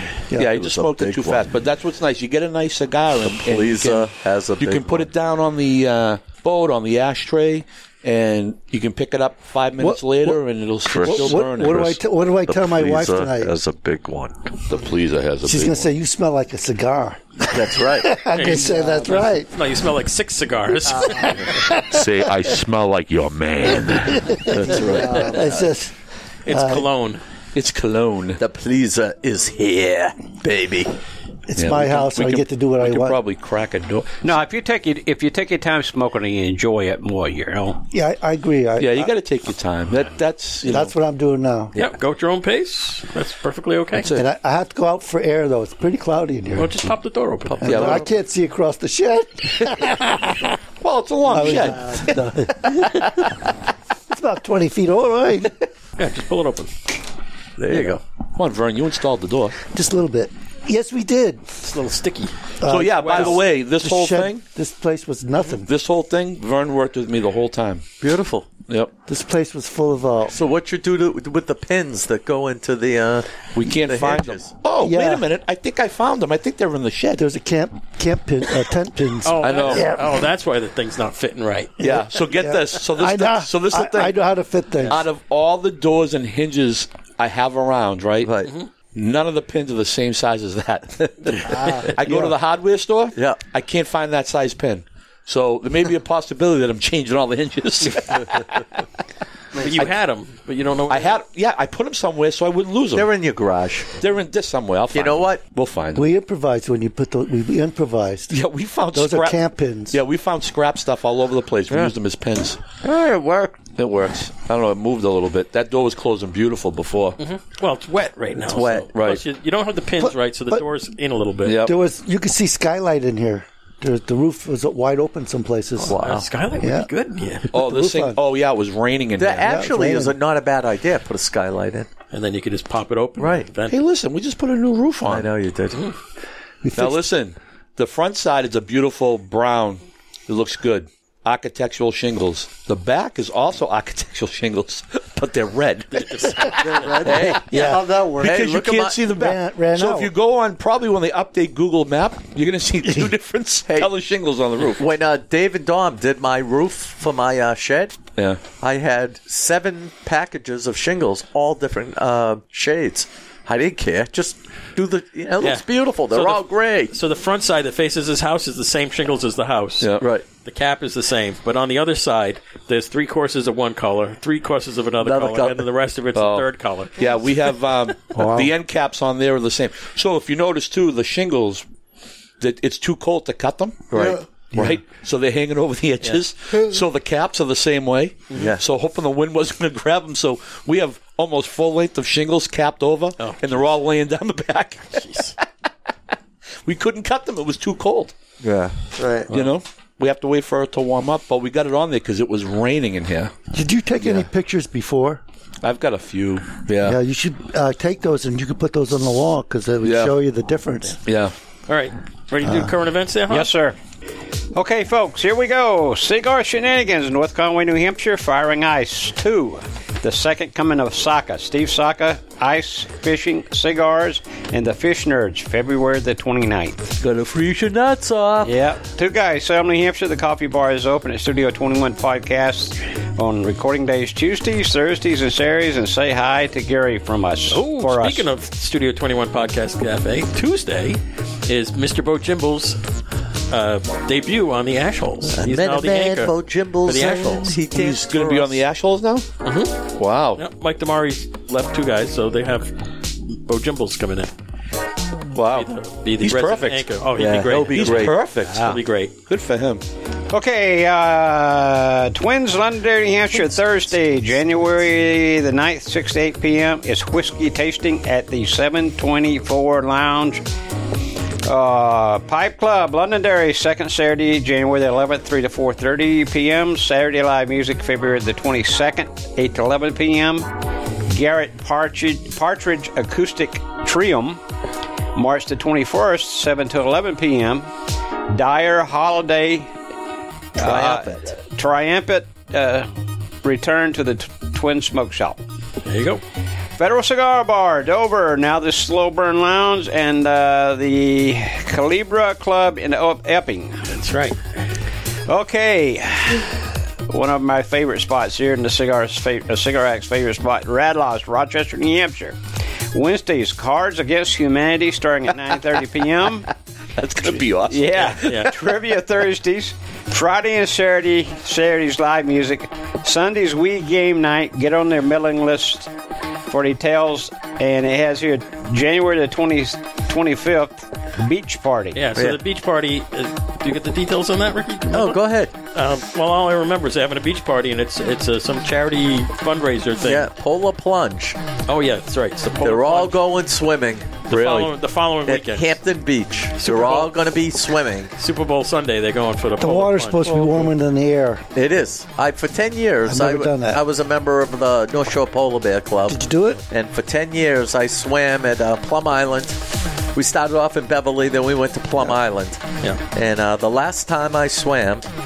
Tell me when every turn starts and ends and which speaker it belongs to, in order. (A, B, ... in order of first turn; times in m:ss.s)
0:00.3-0:00.6 A
0:00.4-0:12.0 B
0:00.4-0:01.5 C
0:03.2-0:05.1 C
0:09.8-0:13.6 A
0:10.9-0:11.9 C
0:12.5-0:14.5 C
0:14.7-0:15.9 D
0:15.4-0:19.5 A
0:17.5-0:18.1 C
0:18.3-0:21.5 E
0:18.4-0:19.3 F
0:20.9-0:21.6 F
0:21.5-0:22.0 A
0:21.8-0:24.3 D
0:23.8-0:25.9 A
0:24.4-0:25.7 C
0:24.7-0:25.6 F
0:26.5-0:27.2 E
0:26.5-0:26.9 A
0:27.5-0:28.4 B
0:28.4-0:30.9 C
0:31.5-0:33.2 A
0:31.6-0:34.3 B
0:34.2-0:37.8 G
0:37.9-0:39.1 A
0:38.8-0:40.9 B
0:40.6-0:41.7 A
0:41.8-0:44.1 E
0:44.0-0:44.3 B
0:44.1-0:46.9 A
0:46.5-0:47.8 E
0:47.5-0:48.1 C
0:47.6-0:50.5 A
0:47.6-0:48.1 B
0:50.8-0:52.2 B
0:51.2-0:53.3 A
0:54.1-0:55.5 A
0:56.0-0:56.7 E
0:57.6-0:58.0 C
0:58.4-0:59.6 B
0:59.7-1:01.5 A
1:01.6-1:02.4 E
1:02.6-1:05.7 A
1:02.7-1:04.4 B
1:02.9-1:03.4 E
1:05.6-1:07.8 B
1:08.0-1:08.5 C
1:09.1-1:10.4 A
1:10.3-1:14.5 C
1:13.6-1:17.2 B
1:14.8-1:15.3 A
1:17.2-1:20.2 A
1:19.2-1:21.8 E
1:19.4-1:19.9 B
1:21.8-1:25.0 A
1:21.8-1:24.2 B
1:24.9-1:28.3 B
1:28.2-1:28.5 C
1:28.9-1:38.8 B
1:31.5-1:31.9 F
1:32.0-1:32.4 A
1:33.1-1:33.4 C
1:39.5-1:39.9 F
1:39.6-1:41.2 E
1:40.9-1:43.1 B
1:43.0-1:43.9 C
1:44.0-1:46.1 B
1:44.9-1:45.4 C
1:46.0-1:48.4 A
1:48.3-1:52.6 B
1:48.9-1:50.0 A
1:52.8-1:53.6 C
1:53.8-1:57.2 B
1:57.2-2:01.6 E
1:58.4-1:58.9 C
1:58.9-1:59.2 B
2:00.0-2:00.6 A
2:01.4-2:01.8 B
2:01.6-2:06.0 A
2:05.8-2:06.3 C
2:05.9-2:07.5 E
2:06.6-2:06.9 A
2:07.5-2:08.2 A
2:07.5-2:09.5 B
2:09.2-2:11.9 C
2:09.4-2:10.2 A
2:12.1-2:13.8 E
2:13.2-2:13.5 C
2:13.7-2:15.3 B
2:15.1-2:15.8 C
2:16.6-2:17.1 A
2:16.8-2:34.9 B
2:25.9-2:27.3 E
2:26.6-2:28.4 F
2:27.4-2:27.9 A
2:28.2-2:29.0 C
2:29.1-2:30.1 A
2:34.8-2:38.0 C
2:38.2-2:38.4 B
2:38.6-2:47.0 C
2:45.4-2:49.9 E
2:49.8-2:50.1 B
2:50.0-2:50.2 C
2:50.4-2:57.1 E
2:55.0-2:55.6 C
2:56.2-3:01.6 B
2:58.2-2:58.5 A
3:02.4-3:04.0 B
3:03.9-3:04.8 C
3:03.9-3:04.2 F
3:04.5-3:04.8 A
3:04.6-3:15.4 B
3:08.3-3:08.6 C
3:13.2-3:13.7 E
3:14.9-3:15.4 E
3:16.6-3:18.1 B
3:18.4-3:18.8 C
3:19.0-3:19.3 F
3:19.3-3:19.6 E
3:19.3-3:23.3 B
3:23.5-3:25.2 A
3:25.6-3:27.0 B
3:26.8-3:31.0 A
3:29.8-3:30.1 B
3:31.1-3:31.3 B
3:31.7-3:33.5 E
3:32.4-3:32.7 A
3:33.3-3:33.8 G
3:34.5-3:46.9 G
3:47.0-3:48.5 C
3:48.4-3:58.3 G
3:57.5-4:02.8 E
4:03.5-4:06.3 E
4:05.3-4:08.6 C
4:06.8-4:07.6 E
4:07.7-4:09.3 B
4:09.4-4:09.8 E
4:10.0-4:10.4 B
4:10.4-4:14.3 E
4:15.3-4:16.9 B
4:15.5-4:19.1 E
4:17.2-4:18.2 C
4:17.4-4:19.8 B
4:18.4-4:18.8 G
4:20.3-4:30.4 G
4:31.5-4:40.5 G
4:41.1-4:44.4 G
4:45.1-4:47.7 G
4:48.3-4:49.7 G
4:50.6-4:52.9 G
4:50.6-4:51.4 C
4:53.4-4:55.4 G
4:55.8-4:56.2 E
4:56.8-5:03.9 G
5:03.9-5:04.4 E
5:05.3-5:06.6 G
5:07.1-5:12.4 G
5:12.9-5:16.5 G
5:17.0-5:18.4 B
5:17.2-5:25.9 G
5:18.2-5:18.6 E
5:26.5-5:32.0 G
5:31.9-5:40.3 E
5:34.9-5:35.5 C
5:40.0-5:41.4 C
5:41.7-5:43.2 E
5:42.6-5:44.7 C
5:44.3-5:45.8 E
5:45.2-5:48.1 C
5:46.6-5:47.1 E
5:48.2-5:50.7 E
5:49.6-5:51.4 A
5:51.5-6:02.6 C
5:53.0-5:53.8 A
5:56.1-5:56.6 A
6:03.1-6:05.1 C